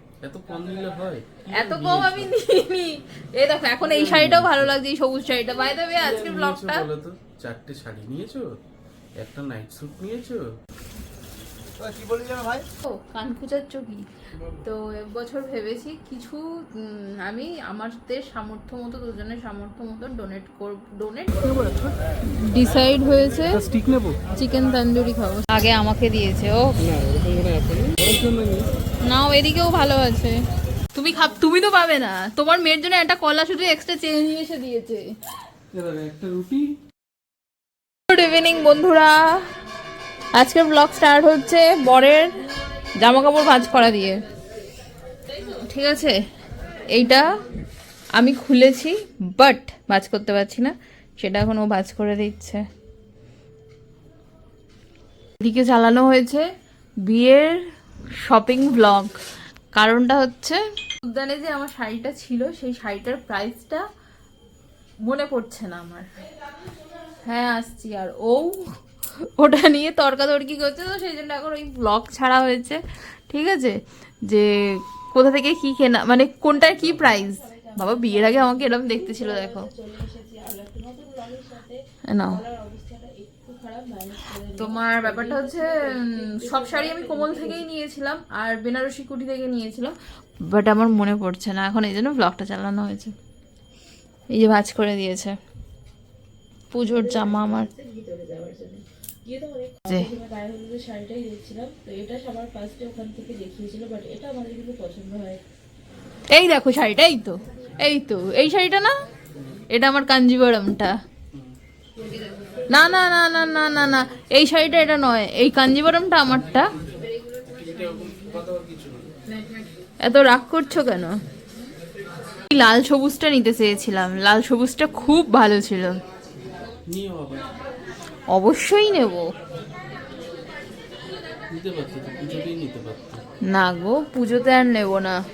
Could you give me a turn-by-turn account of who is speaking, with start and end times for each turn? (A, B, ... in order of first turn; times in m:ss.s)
0:00.2-0:02.4 A
0:01.5-0:06.9 B
0:03.8-0:04.8 A
0:06.0-0:08.5 A
0:09.2-0:10.4 A
0:12.8-0:14.1 B
0:14.4-0:14.6 A
0:14.6-0:21.5 B
0:21.4-0:22.0 A
0:22.3-0:23.6 B
0:23.5-0:24.2 A
0:24.4-0:26.8 B
0:26.8-0:28.7 A
0:29.0-0:30.4 B
0:30.9-0:35.1 B
0:35.7-0:36.7 A
0:38.1-0:39.2 B
0:40.4-0:42.4 B
0:43.0-0:44.2 B
0:45.4-0:46.1 B
0:46.9-0:47.2 B
0:48.2-0:52.6 B
0:55.4-0:56.4 B
0:57.0-0:57.6 B
0:58.2-0:59.2 B
0:59.8-1:03.8 B
1:05.0-1:06.1 B
1:07.2-1:08.7 B
1:09.2-1:19.7 B
1:16.8-1:27.6 C
1:22.1-1:22.4 B
1:24.6-1:33.1 B
1:34.3-1:35.4 B
1:36.7-1:37.7 B
1:36.8-1:45.4 C
1:46.3-1:48.9 B
1:49.7-1:51.0 B
1:52.7-1:56.7 B
1:56.8-1:59.1 A
2:00.0-2:01.2 B
2:02.5-2:06.0 B
2:06.9-2:07.4 A
2:08.3-2:09.3 B
2:11.5-2:13.2 A
2:13.5-2:15.2 B